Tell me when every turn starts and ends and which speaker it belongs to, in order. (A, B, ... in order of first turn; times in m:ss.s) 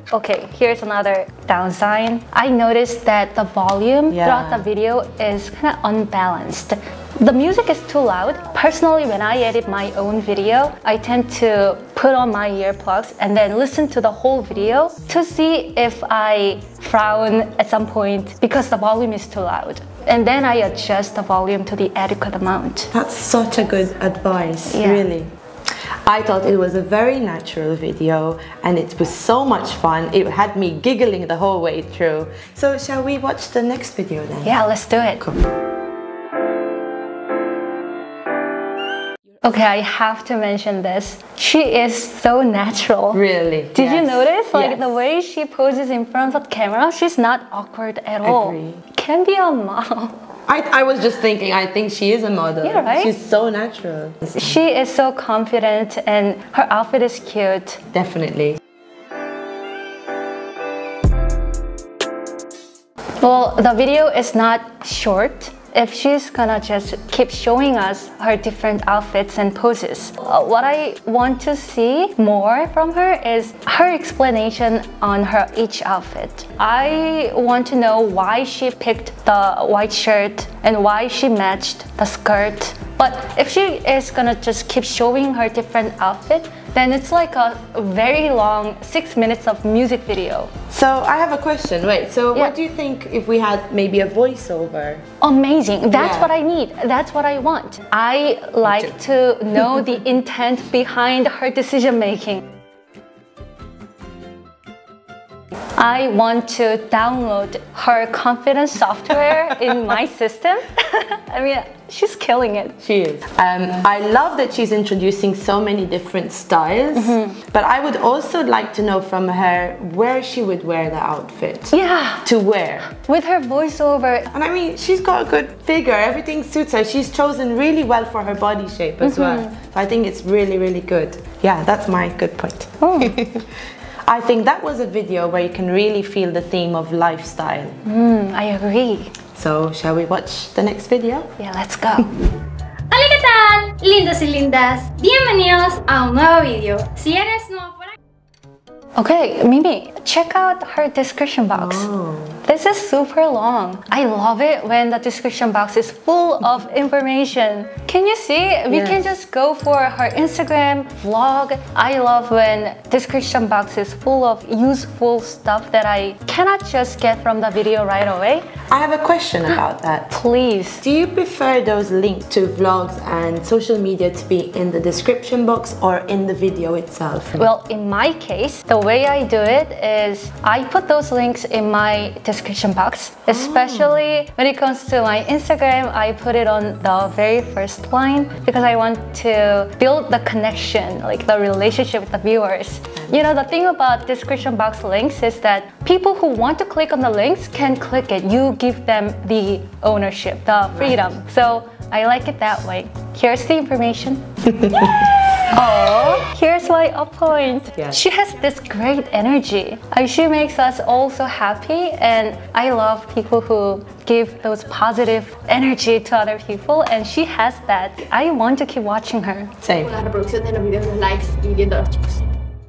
0:00.1-0:22.9 A
0:04.1-0:04.7 B
0:22.9-0:25.3 B
0:24.7-0:25.1 A
0:26.0-0:34.6 B
0:34.4-0:35.2 A
0:35.2-0:35.4 B
0:39.4-0:43.2 A
0:43.1-0:44.9 B
0:43.7-0:50.2 A
0:48.2-0:48.8 B
0:50.5-0:54.6 B
0:52.6-0:53.1 A
0:54.4-0:57.8 A
0:57.9-0:58.6 B
1:03.2-1:30.5 A
1:30.7-1:35.0 B
1:35.2-1:42.4 A
1:35.9-1:36.3 B
1:45.8-1:52.8 A
1:52.8-2:02.9 B
1:56.9-1:57.4 A
2:01.7-2:02.3 A
2:02.9-2:04.3 A
2:04.3-2:13.5 B
2:09.0-2:09.5 A
2:12.8-2:13.2 A
2:14.0-2:17.8 B
2:17.8-2:19.2 A
2:19.4-2:21.3 B
2:21.4-2:22.1 A
2:22.9-2:27.8 C
2:29.0-2:31.9 A
2:31.5-2:32.4 B
2:32.4-2:48.5 A
2:38.7-2:39.1 B
2:48.7-2:50.2 B
2:50.1-2:50.8 A
2:50.8-2:57.5 B
2:57.4-3:24.2 A
3:03.3-3:04.1 B
3:20.7-3:21.1 B
3:24.6-3:25.1 B
3:25.5-3:39.6 A
3:39.6-3:40.0 B
3:39.8-3:42.0 C